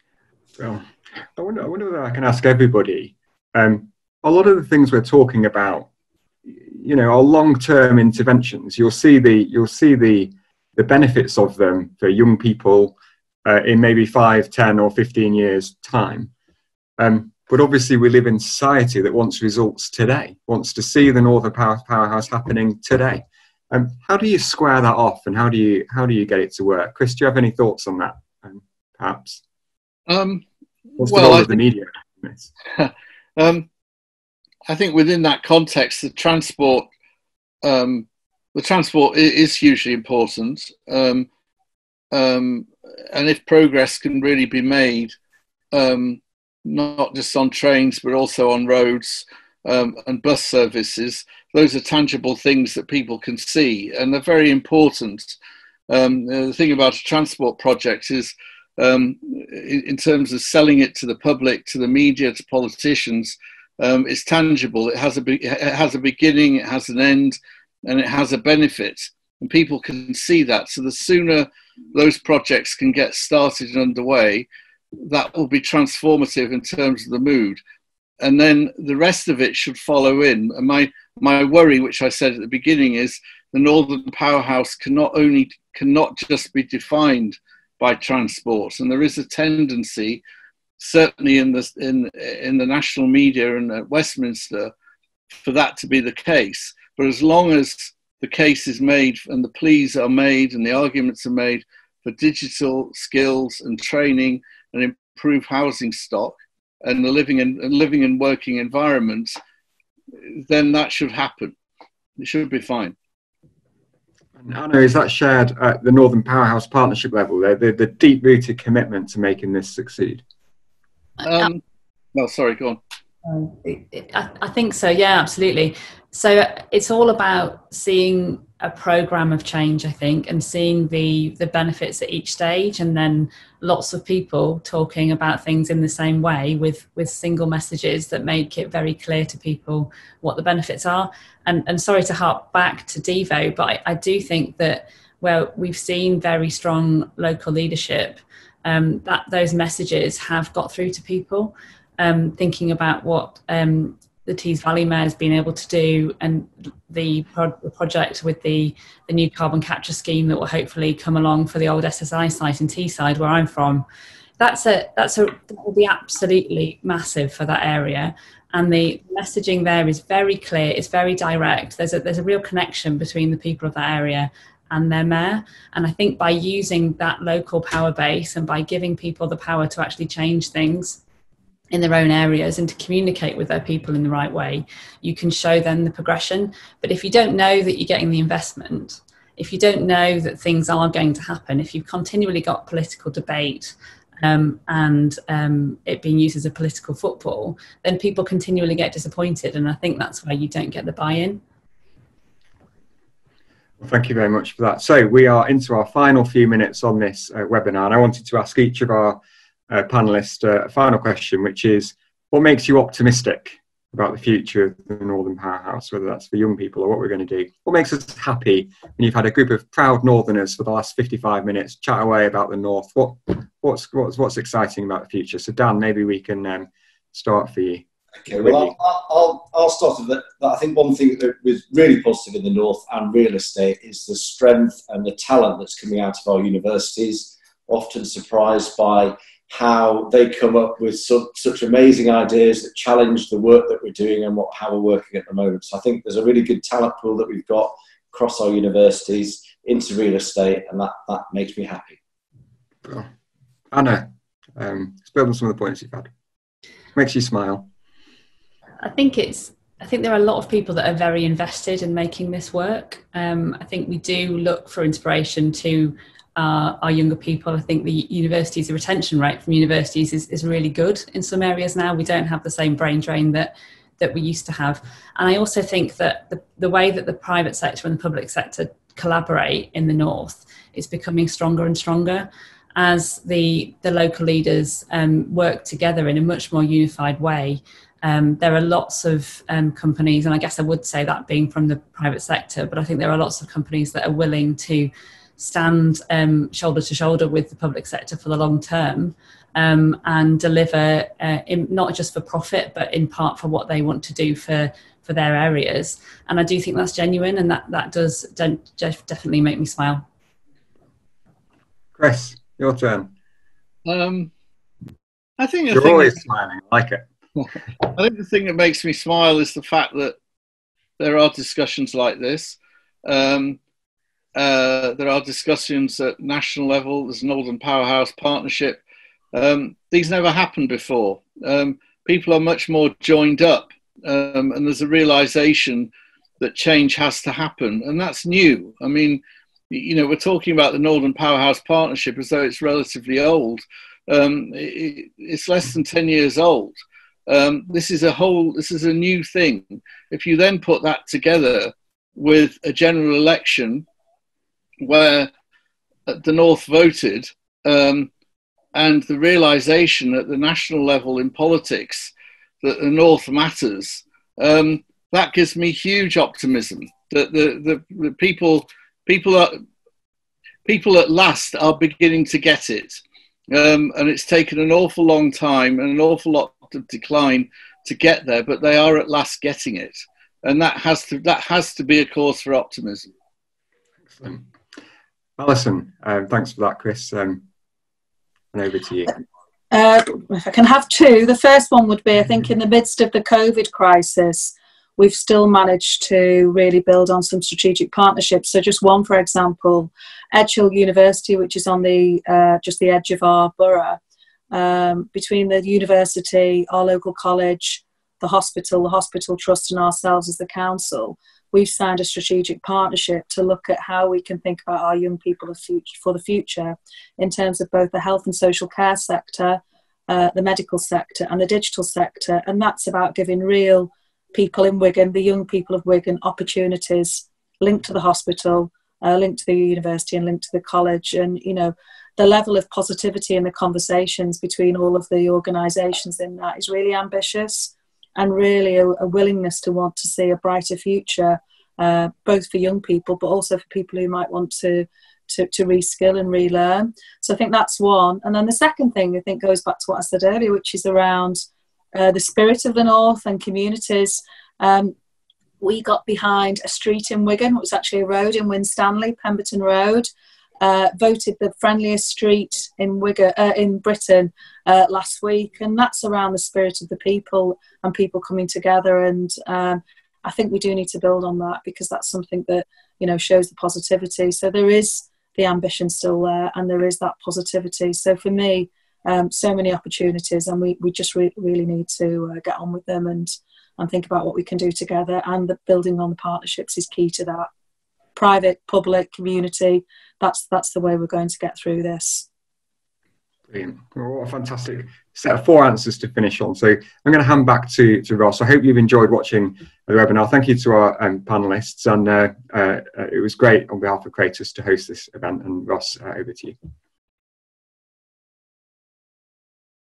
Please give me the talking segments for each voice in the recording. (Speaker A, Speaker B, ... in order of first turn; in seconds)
Speaker A: 0.6-5.9, 6.5-16.3, 17.0-29.4, 31.0-32.5, 114.4-120.2, 203.8-209.2, 209.7-228.7, 252.8-253.1, 253.7-256.1, 256.9-257.7, 311.9-313.1, 315.7-317.5, 384.1-384.4, 385.4-387.4, 388.5-389.2, 493.5-506.6
Speaker B: 30.1-30.4, 30.9-31.6, 32.7-33.7, 34.7-36.9, 37.6-41.3, 42.1-45.1, 45.7-55.4, 55.9-77.6, 78.2-90.2, 90.8-94.7, 95.4-109.3, 110.3-111.5, 112.2-113.0, 121.2-121.6, 122.1-122.8, 313.9-314.3, 315.4-316.2, 317.8-320.2, 321.0-323.6, 324.3-328.8, 329.3-353.9, 354.8-355.3, 356.1-358.1, 358.7-369.6, 370.6-383.1
Speaker C: 123.2-163.8, 164.4-181.0, 181.7-201.4, 258.8-310.0
Speaker D: 228.2-252.0
Speaker E: 389.7-404.0, 404.5-454.9, 455.6-460.1, 460.6-487.5, 488.1-492.2